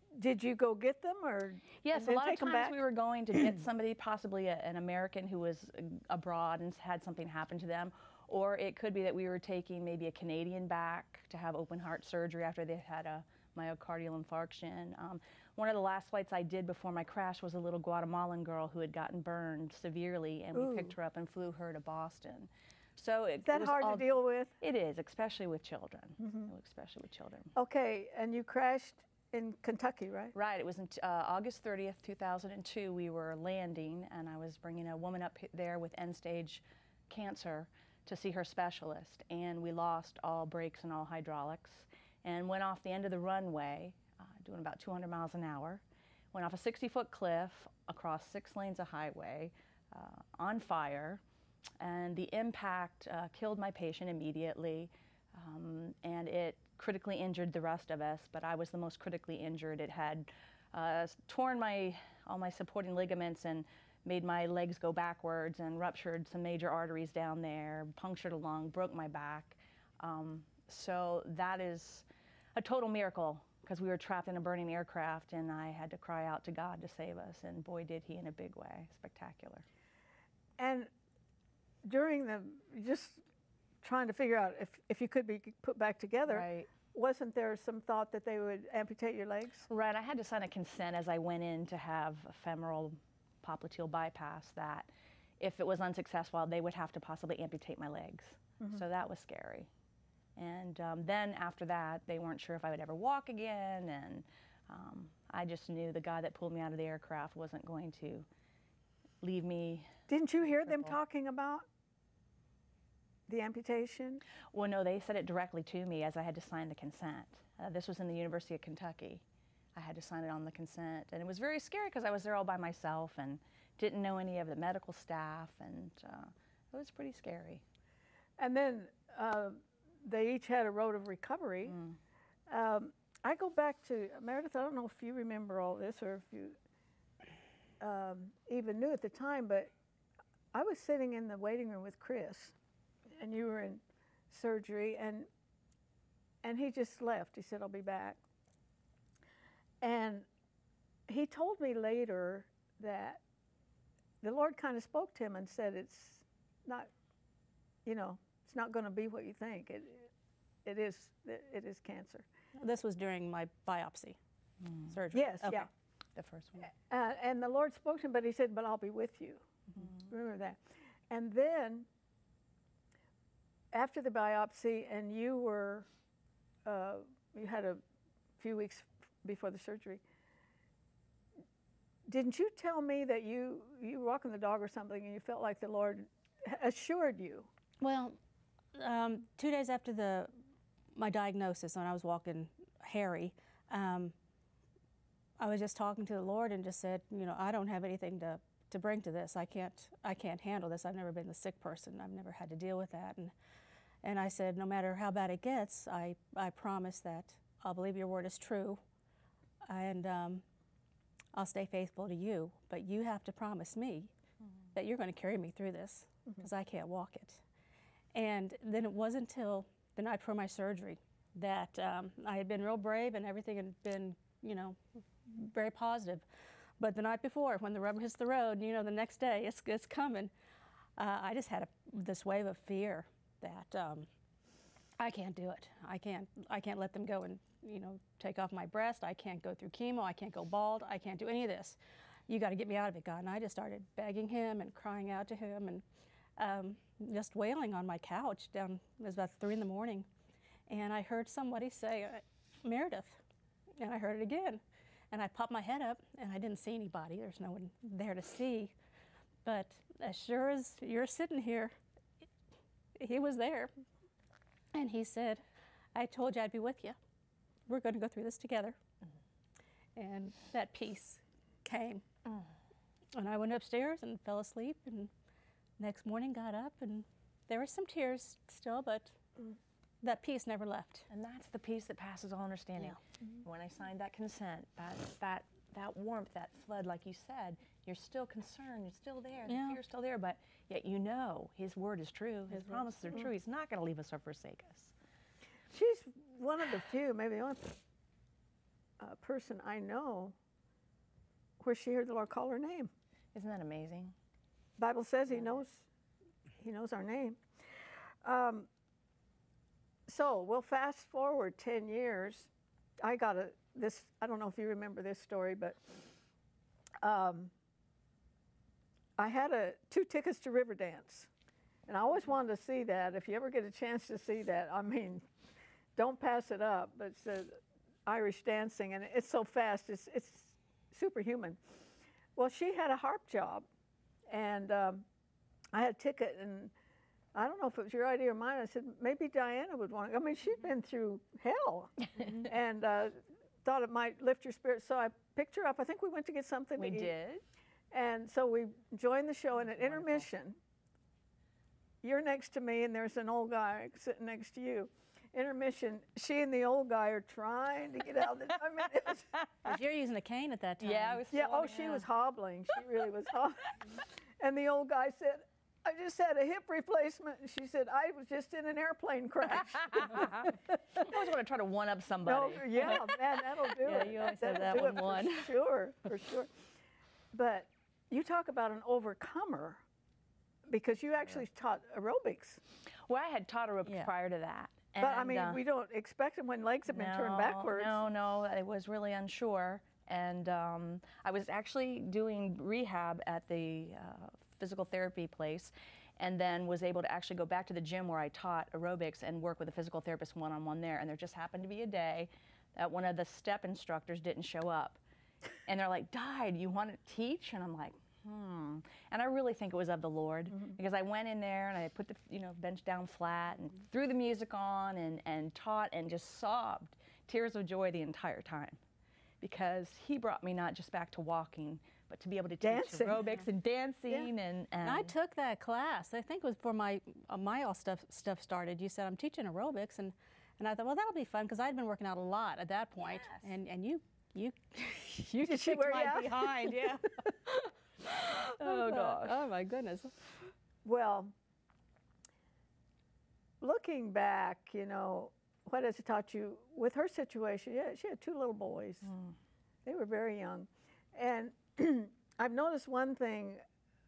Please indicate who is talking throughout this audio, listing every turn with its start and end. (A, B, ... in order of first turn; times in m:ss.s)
0:00.2-0:02.8 A
0:01.8-0:27.5 B
0:20.6-0:20.9 A
0:23.5-0:24.5 A
0:26.2-0:26.5 A
0:27.6-0:30.3 A
0:30.3-0:51.2 B
0:51.8-1:19.6 B
1:20.6-1:20.9 A
1:21.8-1:23.2 A
1:23.8-1:29.7 A
1:26.3-1:26.7 B
1:29.7-1:39.7 B
1:40.4-1:48.3 B
1:49.2-1:49.9 B
1:50.1-1:51.7 A
1:53.3-1:54.2 A
1:54.5-1:59.2 B
1:59.8-2:07.6 B
2:08.4-2:11.8 A
2:11.7-2:12.0 B
2:12.5-2:16.6 A
2:17.8-2:19.7 A
2:20.5-2:22.6 A
2:23.2-2:25.3 A
2:26.4-2:28.2 A
2:29.8-2:30.3 A
2:31.1-2:33.2 A
2:34.2-2:36.9 A
2:37.8-2:40.1 A
2:40.6-2:42.3 A
2:42.6-2:44.2 C
2:44.6-2:44.9 B
2:44.9-2:45.7 C
2:45.1-2:45.7 A
2:45.5-2:46.7 B
2:46.7-2:51.9 A
2:53.7-2:55.9 A
2:56.6-2:57.8 A
2:58.4-3:00.0 A
3:02.1-3:07.5 A
3:07.8-3:08.2 C
3:08.8-3:10.3 C
3:11.0-3:14.1 C
3:15.4-3:23.3 C
3:24.0-3:28.8 C
3:29.7-3:30.4 C
3:31.3-3:34.1 C
3:34.7-3:37.4 C
3:38.1-3:46.2 C
3:46.8-3:50.3 C
3:51.0-3:54.1 C
3:55.0-4:01.8 C
4:02.3-4:05.8 C
4:06.4-4:10.1 C
4:10.7-4:13.2 C
4:13.8-4:18.7 C
4:19.4-4:21.8 C
4:23.0-4:23.7 C
4:24.7-4:25.4 C
4:26.0-4:27.0 C
4:27.7-4:28.8 C
4:30.0-4:32.0 C
4:33.2-4:35.1 C
4:35.8-4:39.2 C
4:40.0-4:41.1 C
4:41.1-4:54.9 B
4:49.5-4:49.8 C
4:52.5-4:52.9 C
4:55.7-4:57.8 A
4:59.0-5:00.4 A
5:01.6-5:02.9 A
5:03.3-5:04.2 B
5:04.8-5:05.9 A
5:06.6-5:07.4 A
5:08.2-5:08.7 A
5:10.1-5:16.0 A
5:17.0-5:17.5 A
5:19.2-5:21.3 A
5:21.9-5:25.3 A
5:26.0-5:31.6 A
5:32.4-5:33.7 A
5:34.3-5:35.0 A
5:35.7-5:36.7 A
5:37.4-5:47.1 A
5:46.8-5:47.4 B
5:47.9-5:50.6 A
5:52.0-5:59.4 A
5:59.6-6:01.2 C
6:00.8-6:02.1 B
6:01.3-6:11.1 A
6:09.5-6:13.1 B
6:12.2-6:16.5 A
6:13.8-6:15.5 C
6:14.6-6:15.0 B
6:17.3-6:19.8 A
6:20.7-6:22.6 A
6:23.1-6:25.6 B
6:23.8-6:24.1 C
6:25.0-6:28.1 A
6:26.9-6:45.0 B
6:45.6-6:58.8 B
6:59.4-7:05.1 B
7:02.6-7:03.2 A
7:04.8-7:20.2 C
7:15.5-7:16.9 A
7:18.6-7:19.4 B
7:20.8-7:21.3 A
7:23.6-7:29.1 A
7:29.1-7:29.3 B
7:29.8-7:33.6 A